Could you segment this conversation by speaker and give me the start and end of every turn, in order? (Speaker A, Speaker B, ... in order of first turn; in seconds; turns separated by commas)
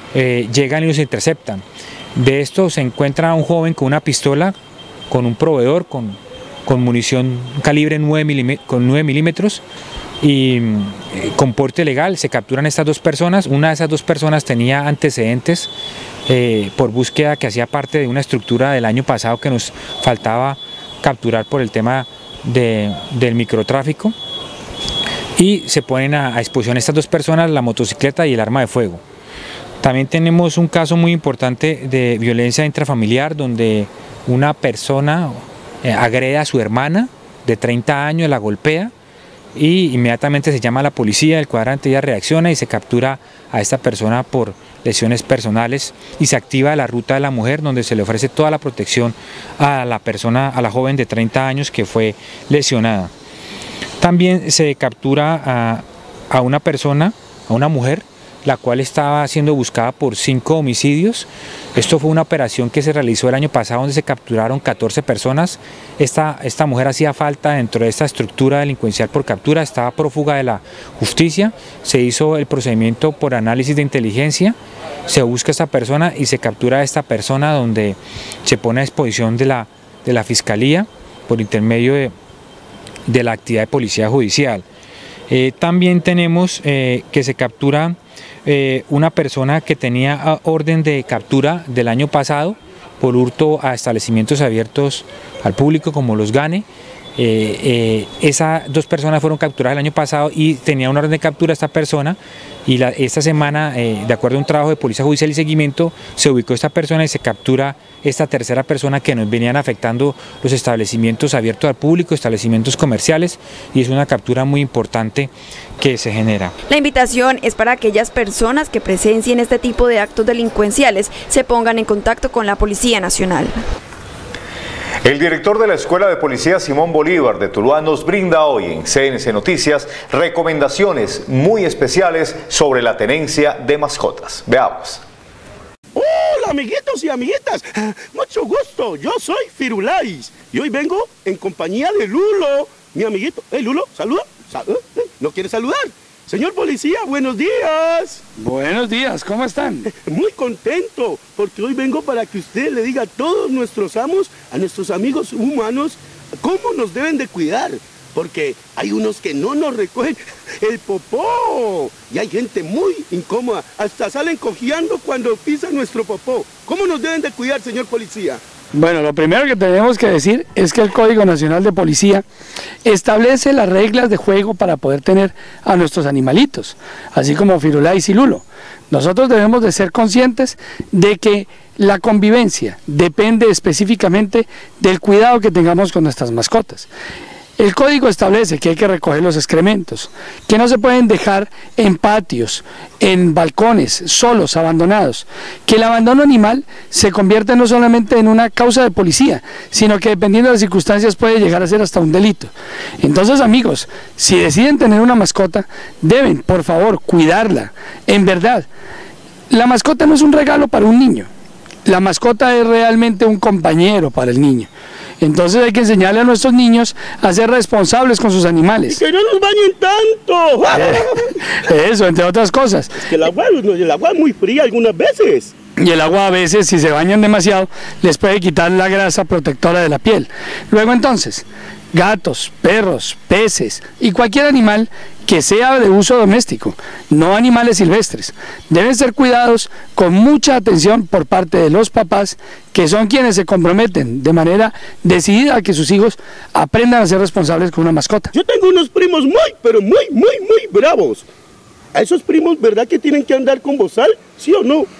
Speaker A: 0.1-1.6, Speaker A: 2.1-4.5, Speaker A: 5.1-9.6, Speaker A: 10.2-15.7, Speaker A: 16.3-24.1, Speaker A: 25.4-29.0, Speaker A: 29.8-38.9, Speaker A: 39.5-53.1, Speaker A: 54.0-74.5, Speaker A: 75.1-82.1, Speaker A: 83.1-84.6, Speaker A: 85.3-116.5, Speaker B: 116.7-123.6, Speaker C: 125.0-135.0, Speaker D: 135.9-148.2, Speaker E: 148.4-149.9, Speaker D: 149.9-168.4, Speaker E: 168.7-172.2, Speaker E: 172.8-186.9, Speaker E: 187.6-208.7, Speaker E: 209.5-211.3, Speaker E: 211.8-214.7, Speaker E: 215.2-219.0, Speaker D: 218.8-221.3, Speaker E: 220.7-221.1, Speaker E: 221.6-222.9, Speaker D: 223.1-225.5, Speaker E: 225.8-248.3, Speaker D: 248.3-251.2, Speaker D: 251.9-254.9